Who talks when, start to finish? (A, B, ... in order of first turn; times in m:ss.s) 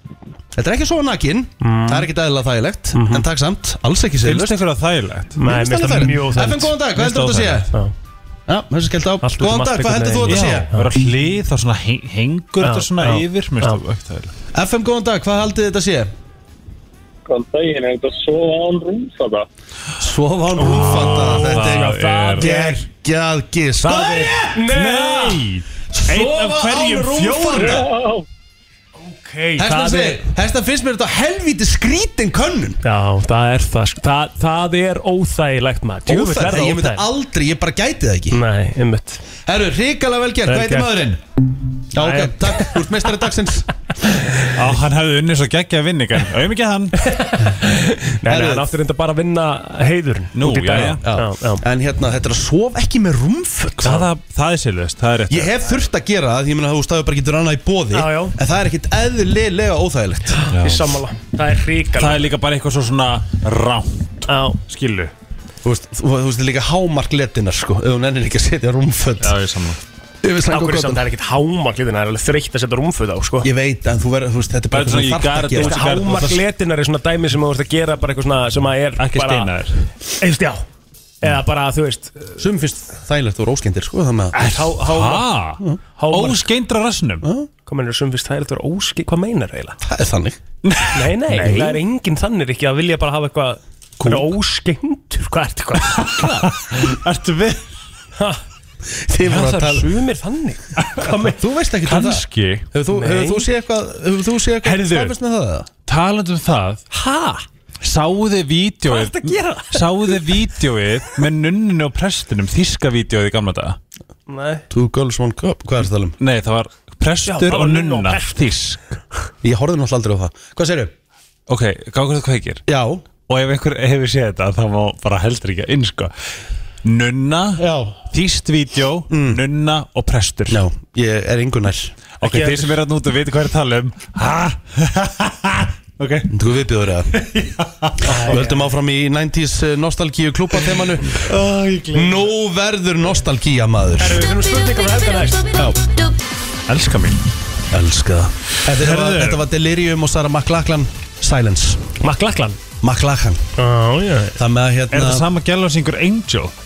0:00.5-0:04.6 A
0:01.6-0:02.1 B
0:02.9-0:03.2 B
0:04.2-0:05.4 C
0:05.4-0:06.8 B
0:05.4-0:07.7 A
0:06.9-0:07.6 C
0:08.5-0:10.7 A
0:09.2-0:10.9 B
0:10.2-0:14.3 C
0:12.6-0:13.8 B
0:14.5-0:16.1 A
0:17.2-0:19.4 D
0:20.0-0:24.4 A
0:20.6-0:22.5 C
0:20.7-0:22.8 B
0:23.8-0:25.5 B
0:23.9-0:27.8 C
0:25.9-0:27.9 A
0:27.6-0:28.2 D
0:29.0-0:30.2 B
0:29.6-0:32.8 A
0:32.8-0:37.1 B
0:36.1-0:38.4 A
0:38.3-0:39.2 B
0:39.4-0:41.2 A
0:40.4-0:40.9 B
0:41.9-0:43.7 A
0:42.0-0:42.7 B
0:44.5-0:47.1 C
0:47.0-0:51.6 B
0:48.2-0:48.7 A
0:50.3-0:51.0 C
0:50.8-0:53.9 A
0:53.8-0:55.5 C
0:55.3-1:00.4 A
0:57.9-0:58.3 B
1:00.4-1:02.3 B
1:00.5-1:00.8 C
1:01.9-1:05.1 C
1:04.2-1:04.6 B
1:05.6-1:09.4 A
1:09.2-1:09.8 C
1:10.2-1:11.0 A
1:10.5-1:13.5 B
1:13.4-1:16.0 A
1:14.7-1:16.4 C
1:15.5-1:19.5 B
1:19.0-1:19.7 C
1:20.2-1:20.6 B
1:21.2-1:22.4 B
1:22.4-1:24.4 A
1:24.3-1:27.2 C
1:24.3-1:25.3 B
1:26.0-1:26.5 B
1:27.2-1:27.5 A
1:27.6-1:29.8 B
1:29.8-1:30.4 A
1:30.6-1:31.8 C
1:30.9-1:36.5 B
1:35.9-1:37.6 C
1:38.2-1:38.4 B
1:39.1-1:39.9 A
1:39.2-1:41.4 B
1:40.8-1:41.0 C
1:41.2-1:45.7 A
1:41.8-1:42.7 C
1:42.9-1:43.5 B
1:44.6-1:45.1 C
1:45.8-1:46.8 C
1:46.9-1:47.4 B
1:47.8-1:53.8 C
1:48.8-1:50.3 B
1:54.3-1:54.6 B
1:54.7-1:56.2 A
1:56.2-1:58.8 C
1:57.2-1:58.4 B
1:59.4-2:00.9 A
2:01.5-2:02.6 C
2:02.7-2:03.0 A
2:03.2-2:06.1 C
2:06.8-2:10.6 C
2:07.6-2:08.0 A
2:09.1-2:09.4 A
2:10.5-2:11.9 A
2:12.2-2:16.3 C
2:12.2-2:12.8 B
2:16.3-2:17.1 A
2:17.1-2:18.2 C
2:18.0-2:18.7 B
2:18.2-2:21.2 A
2:21.1-2:22.2 C
2:21.9-2:24.2 A
2:24.0-2:25.5 B
2:25.5-2:25.8 A
2:26.7-2:27.2 C
2:27.7-2:31.8 A
2:28.7-2:29.4 C
2:32.0-2:32.6 B
2:32.8-2:33.4 A
2:33.6-2:34.4 B
2:34.4-2:35.2 A
2:34.9-2:36.5 C